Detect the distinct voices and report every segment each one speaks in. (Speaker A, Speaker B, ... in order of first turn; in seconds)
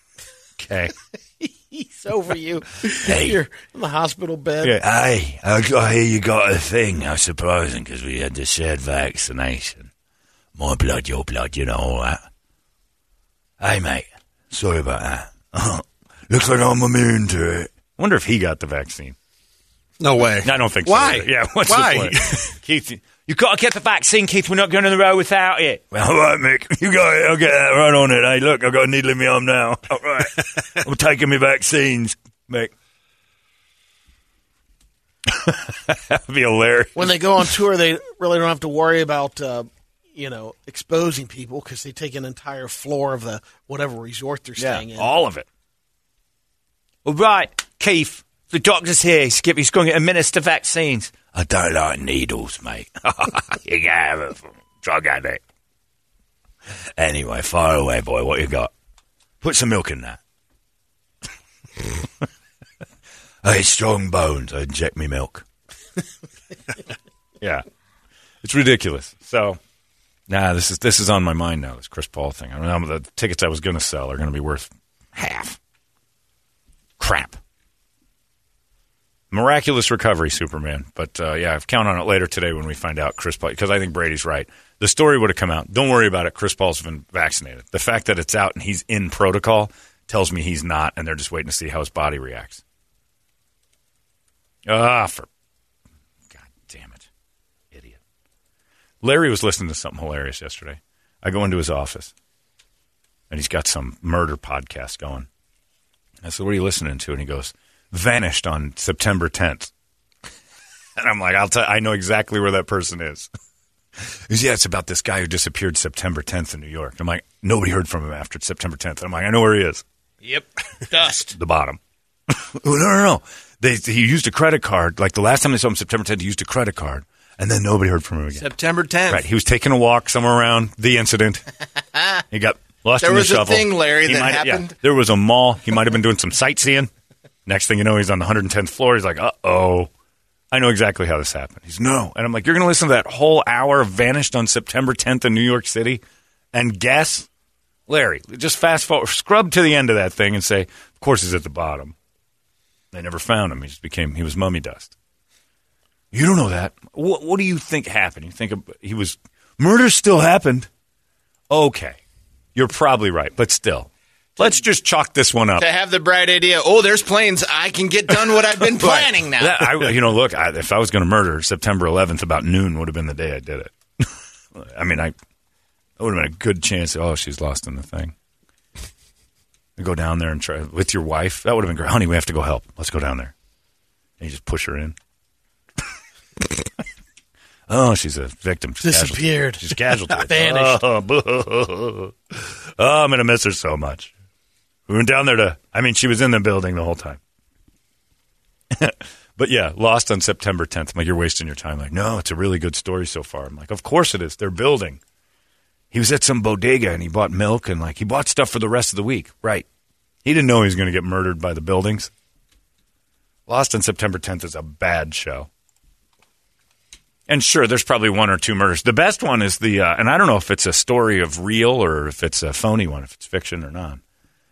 Speaker A: 0.6-0.9, 3.0-3.4, 4.6-9.9, 10.6-12.2, 13.6-19.2, 20.4-32.7, 35.3-37.2, 44.6-45.5, 47.0-55.4, 57.0-58.7, 59.4-60.2, 63.4-65.5, 67.4-67.7, 68.4-69.6, 70.3-75.6, 77.0-77.4, 79.3-92.6, 94.7-95.3, 96.3-97.0, 97.7-98.0, 99.0-102.1, 103.3-105.3, 106.2-109.7, 111.0-113.3, 114.3-119.8, 121.3-121.8, 122.3-128.5, 129.1-131.4, 132.3-136.9, 137.5-139.9, 140.5-146.0, 146.5-147.3, 147.9-151.9, 152.9-154.9, 156.1-160.7, 161.5-162.0, 162.6-165.7, 168.8-175.2, 176.0-178.1, 179.8-183.3, 184.2-185.0, 187.7-194.1, 194.9-197.2, 198.7-205.0, 205.9-209.7, 210.2-212.1, 213.5-215.5, 217.3-224.0
Speaker B: 1.4-4.8, 37.0-45.1, 120.2-121.3, 188.8-190.8
Speaker C: 20.0-22.5
Speaker D: 128.4-129.2, 133.0-134.8, 165.6-169.6